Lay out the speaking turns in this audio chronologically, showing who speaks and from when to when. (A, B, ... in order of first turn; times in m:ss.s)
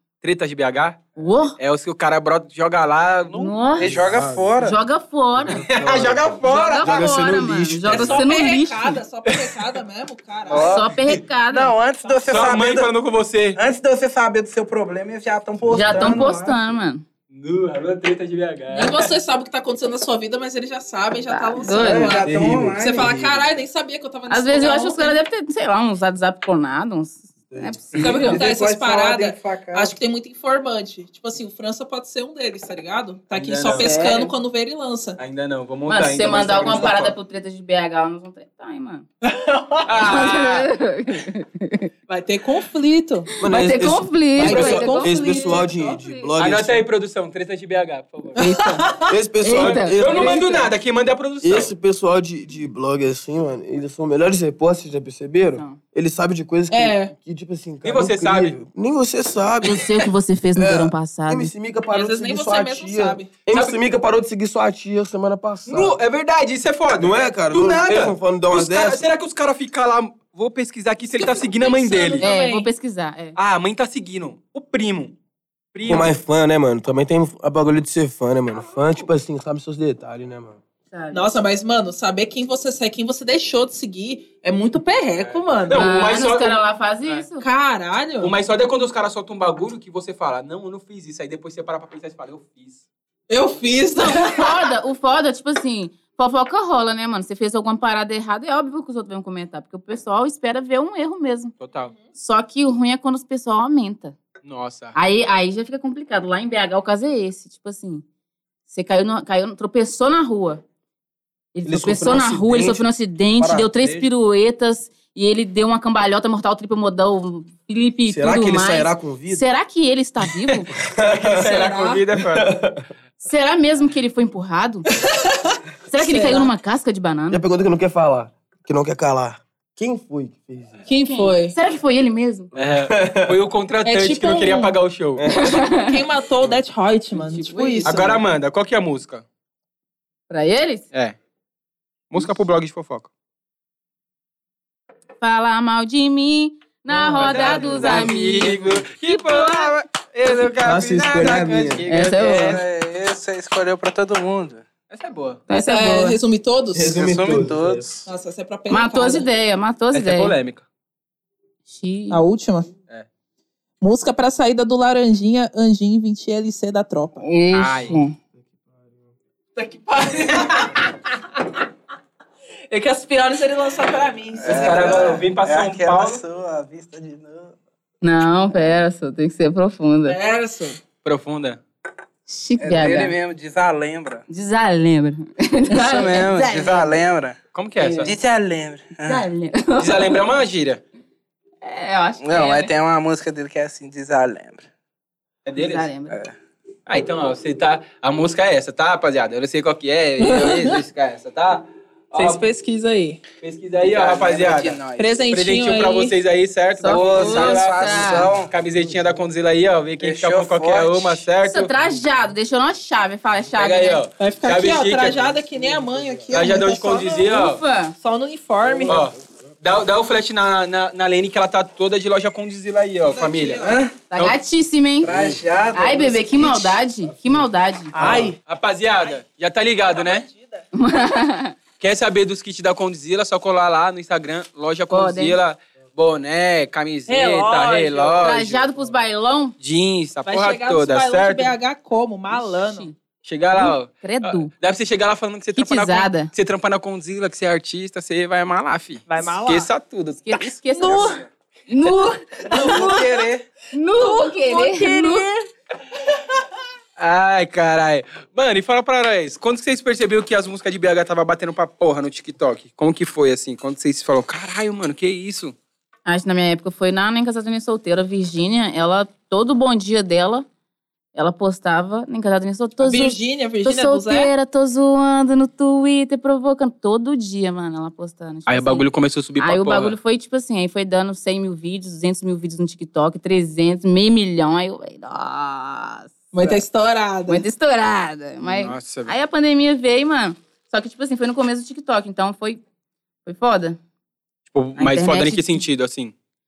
0:00.2-0:01.1 A
0:01.2-0:01.6 B
0:01.6-0:03.6 A
0:03.3-0:04.1 B
0:03.8-0:04.8 C
0:03.8-0:04.6 D
0:04.6-0:05.7 B
0:05.4-0:08.2 D
0:05.6-0:08.2 A
0:06.5-0:09.0 B
0:06.5-0:06.8 E
0:07.9-0:10.9 E
0:09.3-0:09.7 A
0:10.5-0:10.9 C
0:10.5-0:11.8 B
0:11.5-0:12.9 C
0:12.0-0:12.6 E
0:12.3-0:13.6 A
0:13.6-0:16.6 C
0:15.7-0:17.0 B
0:15.7-0:16.0 D
0:17.3-0:19.1 A
0:18.7-0:25.2 E
0:21.3-0:22.2 B
0:21.8-0:23.3 C
0:22.2-0:23.4 D
0:24.3-0:28.4 B
0:27.5-0:27.8 D
0:28.0-0:35.2 E
0:28.2-0:29.9 C
0:33.3-0:34.1 A
0:33.7-0:34.3 B
0:35.2-0:37.2 A
0:35.9-0:39.1 B
0:39.3-0:39.9 E
0:39.9-0:40.7 A
0:40.0-0:41.9 B
0:42.1-0:43.3 E
0:43.4-0:46.9 D
0:43.5-0:46.3 B
0:44.4-0:45.7 E
0:44.4-0:44.9 A
0:46.4-0:48.5 A
0:48.4-0:49.2 E
0:48.4-0:50.6 B
0:49.1-0:50.7 D
0:49.5-0:51.7 A
0:51.4-1:06.0 D
0:55.6-0:55.8 B
0:56.7-0:57.1 E
0:57.8-0:58.6 A
0:59.6-1:01.5 B
1:01.9-1:03.3 E
1:03.5-1:03.8 A
1:05.7-1:12.3 A
1:06.9-1:09.0 D
1:11.4-1:12.7 E
1:12.2-1:13.4 B
1:13.4-1:15.2 A
1:15.7-1:16.1 A
1:15.8-1:20.6 D
1:20.9-1:21.4 B
1:21.1-1:25.9 E
1:25.2-1:27.2 A
1:25.7-1:27.5 B
1:27.4-1:28.3 E
1:28.2-1:32.8 A
1:33.3-1:34.7 E
1:34.0-1:41.5 B
1:41.6-1:41.9 A
1:42.1-1:44.2 B
1:44.4-1:45.0 A
1:45.0-1:48.0 B
1:48.7-1:50.6 B
1:51.6-2:00.8 B
1:51.6-1:54.1 D
1:58.1-1:59.4 D
2:00.8-2:02.8 D
2:01.0-2:02.6 A
2:03.2-2:04.9 B
2:05.9-2:07.4 B
2:06.0-2:06.5 E
2:07.3-2:10.8 D
2:10.9-2:11.6 E
2:11.0-2:12.5 B
2:12.5-2:15.3 A
2:12.8-2:13.4 D
2:13.8-2:14.7 E
2:15.2-2:15.5 D
2:15.3-2:16.0 B
2:15.6-2:18.2 E
2:17.1-2:18.2 B
2:17.8-2:19.2 A
2:20.3-2:20.9 B
2:22.1-2:23.1 A
2:25.2-2:29.8 B
2:26.9-2:28.1 D
2:27.2-2:32.6 A
2:30.6-2:31.9 D
2:31.9-2:32.6 B
2:32.1-2:34.6 C
2:34.9-2:35.4 A
2:35.5-2:36.2 B
2:35.6-2:37.0 E
2:36.7-2:38.1 D
2:36.8-2:38.0 C
2:38.1-2:39.3 E
2:38.7-2:40.4 B
2:39.9-2:40.6 A
2:41.7-2:42.2 B
2:42.1-2:42.7 E
2:43.8-2:47.3 E
2:47.2-2:48.2 B
2:47.5-2:48.0 A
2:49.6-2:50.8 E
2:50.3-2:50.7 A
2:52.7-2:55.2 E
2:54.4-2:57.6 C
2:54.4-2:56.2 A
2:58.0-3:00.2 B
3:00.1-3:00.8 E
3:01.0-3:01.6 A
3:02.3-3:03.2 B
3:02.6-3:04.2 C
3:04.3-3:07.0 B
3:05.7-3:07.4 C
3:07.5-3:08.2 A
3:07.8-3:08.1 B
3:07.9-3:09.3 C
3:09.0-3:10.3 B
3:09.8-3:10.8 A
3:11.6-3:12.7 B
3:12.2-3:14.7 C
3:15.5-3:15.9 A
3:15.6-3:16.2 B
3:16.1-3:16.4 C
3:16.9-3:22.4 A
3:20.2-3:20.8 E
3:22.1-3:23.2 E
3:23.4-3:24.8 A
3:23.8-3:25.2 C
3:25.0-3:26.2 E
3:25.3-3:31.7 A
3:26.8-3:28.3 B
3:26.9-3:28.5 C
3:30.0-3:31.3 C
3:31.4-3:34.0 B
3:33.6-3:35.4 A
3:34.2-3:37.3 E
3:35.7-3:36.3 D
3:36.3-3:37.6 A
3:37.2-3:38.0 B
3:38.0-3:39.0 E
3:38.6-3:39.1 D
3:38.9-3:44.4 A
3:43.1-3:43.8 E
3:43.6-3:43.9 C
3:44.1-3:45.1 B
3:45.0-3:46.5 C
3:45.1-3:45.4 D
3:45.7-3:48.0 B
3:47.9-3:48.4 E
3:48.0-3:50.3 A
3:49.8-3:50.7 E
3:50.7-3:51.6 B
3:51.8-3:58.7 A
3:54.9-3:55.4 B
3:57.1-3:58.4 E
3:58.2-3:59.6 B
3:59.6-4:01.6 A
4:00.2-4:02.9 E
4:02.3-4:03.0 B
4:03.2-4:10.9 A
4:03.5-4:04.5 B
4:05.6-4:06.3 B
4:09.1-4:09.7 E
4:10.2-4:13.1 B
4:10.7-4:11.2 E
4:12.5-4:13.4 C
4:12.5-4:13.0 E
4:13.7-4:15.3 B
4:14.0-4:15.5 E
4:17.0-4:25.6 A
4:26.1-4:30.5 B
4:31.2-4:38.9 B
4:32.8-4:34.3 E
4:38.5-4:40.0 A
4:39.4-4:46.6 B
4:46.3-4:47.5 E
4:47.3-4:52.6 B
4:48.4-4:49.1 A
4:53.2-4:53.8 B
4:54.5-4:56.1 A
4:54.8-4:55.6 B